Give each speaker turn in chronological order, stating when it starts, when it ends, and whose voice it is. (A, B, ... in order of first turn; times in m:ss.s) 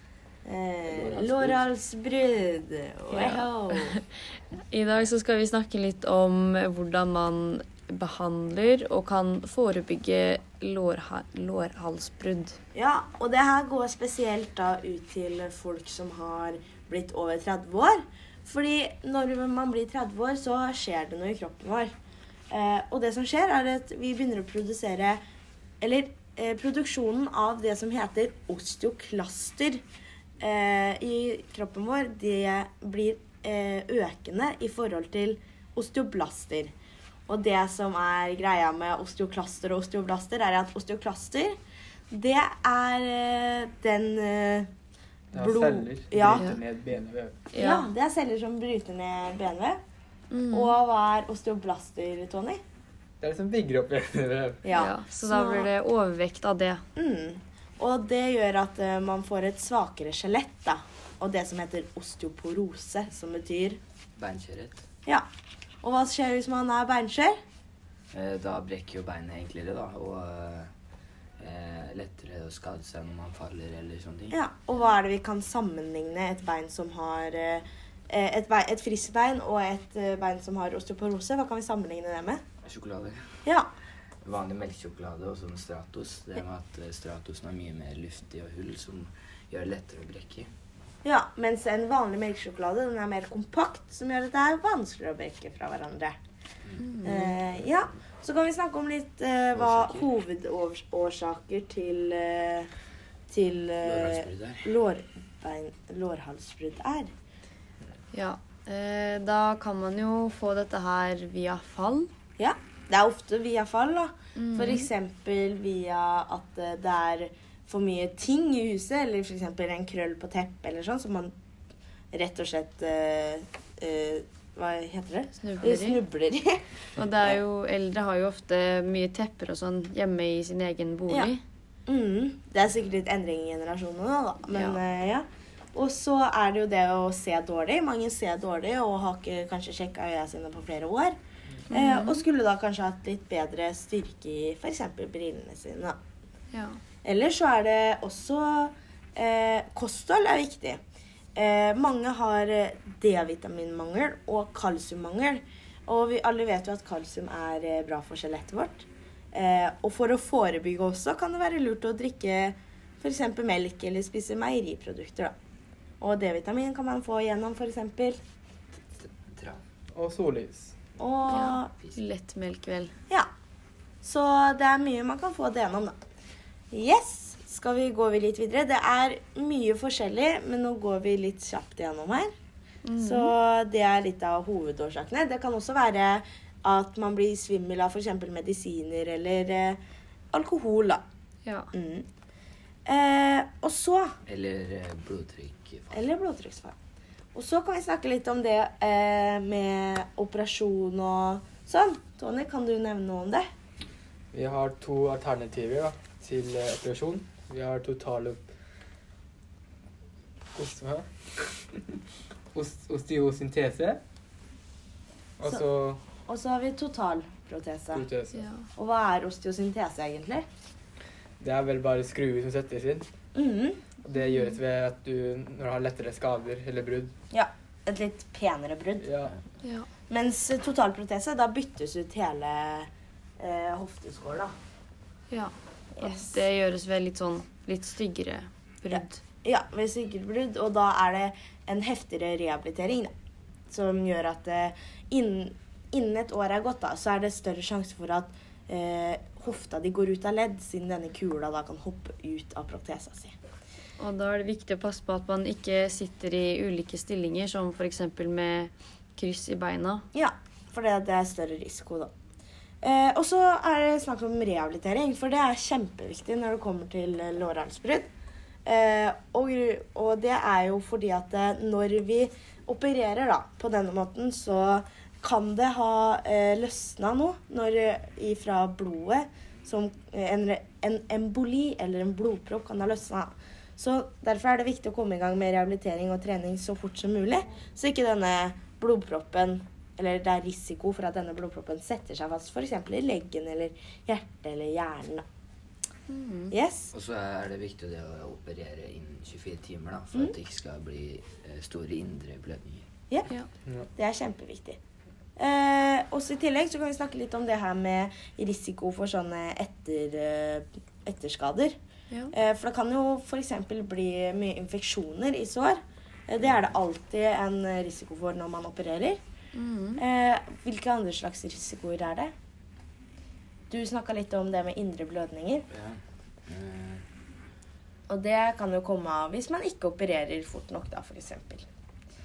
0:00.4-0:04.0 A
0:00.9-0:01.6 B
0:03.2-0:04.0 C
0:04.7-0:12.6 C
0:12.7-0:21.9 A
0:22.5-0:25.2 A
0:25.8-0:29.8 A
0:30.4-0:36.7 A
0:37.3-0:41.6 A
0:42.1-0:44.7 A
0:45.3-0:47.4 D
0:45.4-0:46.4 A
0:47.5-0:47.9 C
0:47.6-0:49.8 A
0:50.3-0:50.7 C
0:50.5-0:52.6 A
0:53.2-0:54.6 D
0:54.6-0:55.7 A
0:54.7-0:56.8 C
0:57.0-1:03.8 A
1:04.2-1:04.8 B
1:05.8-1:07.4 A
1:08.1-1:10.7 B
1:11.4-1:14.3 B
1:14.3-1:22.4 A
1:22.6-1:23.2 B
1:23.4-1:23.7 A
1:24.2-1:30.5 B
1:31.0-1:36.2 A
1:36.8-1:37.3 C
1:37.0-1:42.7 A
1:39.5-1:40.0 B
1:43.3-1:47.1 A
1:43.8-1:44.7 B
1:48.1-1:52.1 C
1:52.4-2:01.3 A
1:54.4-1:54.8 C
2:02.1-2:06.6 A
2:05.4-2:06.0 C
2:07.0-2:11.4 C
2:11.9-2:21.2 A
2:14.5-2:14.8 C
2:21.7-2:26.0 A
2:21.7-2:22.2 C
2:26.5-2:26.8 C
2:27.0-2:30.8 A
2:31.4-2:45.3 A
2:46.0-2:48.2 A
2:48.9-2:49.6 B
2:49.9-2:50.7 D
2:51.0-2:51.7 A
2:51.3-2:52.9 C
2:54.0-2:56.0 A
2:56.7-3:02.3 A
3:02.8-3:03.3 C
3:03.0-3:09.8 A
3:10.3-3:11.0 A
3:11.7-3:12.1 A
3:12.8-3:14.1 A
3:14.2-3:16.0 B
3:15.9-3:16.7 A
3:17.3-3:23.5 A
3:24.3-3:28.4 D
3:30.5-3:31.1 D
3:32.5-3:34.0 D
3:35.4-3:36.0 D
3:36.3-3:38.0 A
3:37.9-3:38.4 D
3:38.3-3:38.6 C
3:38.8-3:40.4 A
3:41.4-3:43.1 D
3:43.3-3:43.8 A
3:44.0-3:47.1 D
3:44.1-3:44.6 C
3:47.3-3:49.1 A
3:49.0-3:49.3 D
3:50.1-3:54.5 A
3:55.3-3:59.2 C
3:56.0-3:56.3 A
3:58.9-4:03.1 A
4:03.7-4:13.3 A
4:14.0-4:20.0 C
4:20.1-4:22.1 A
4:22.8-4:28.1 A
4:28.6-4:55.2 A
4:56.1-4:56.5 C
4:56.5-4:56.9 A
4:56.9-5:02.9 B
5:04.0-5:04.8 A
5:05.4-5:11.8 A
5:12.3-5:19.2 A
5:19.5-5:20.0 C
5:20.0-5:22.3 A
5:23.7-5:25.6 A
5:25.7-5:27.0 B
5:28.1-5:31.6 A